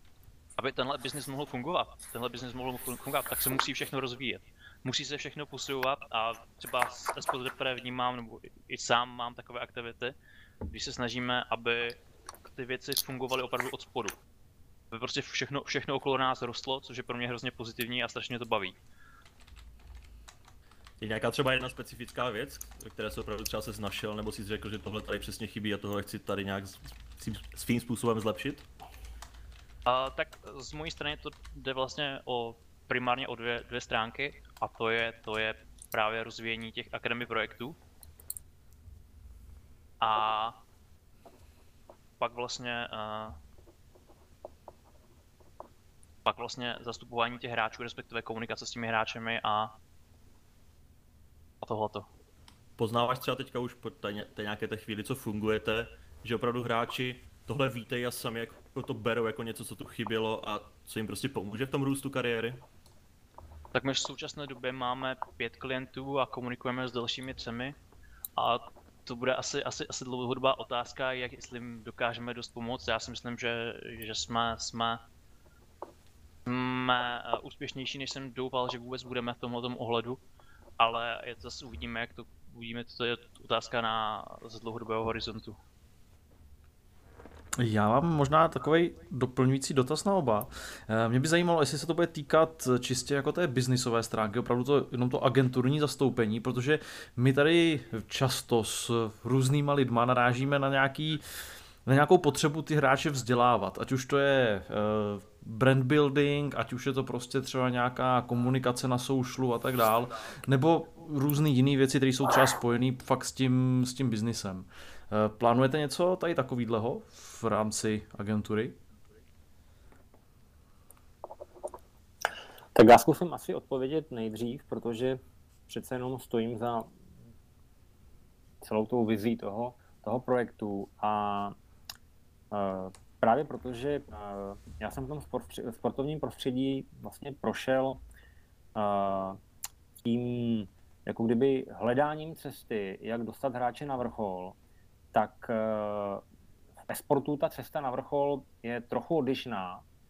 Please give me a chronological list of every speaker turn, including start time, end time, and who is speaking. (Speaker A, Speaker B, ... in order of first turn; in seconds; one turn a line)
Speaker A: 0.6-14.2
Speaker A: 14.9-18.8
Speaker B: 21.0-28.7
Speaker A: 29.9-37.8
Speaker A: 40.0-40.6
Speaker A: 42.2-43.4
Speaker A: 46.2-49.7
Speaker A: 51.6-52.1
Speaker B: 52.8-62.6
Speaker A: 63.7-67.8
Speaker A: 68.4-75.0
Speaker A: 76.5-80.2
Speaker A: 80.8-85.6
Speaker C: 87.6-118.8
Speaker D: 122.8-126.9
Speaker D: 128.6-131.6
Speaker D: 132.5-138.0
Speaker D: 138.8-139.4
Speaker D: 140.0-144.6
Speaker D: 145.1-146.2
Speaker D: 146.9-149.8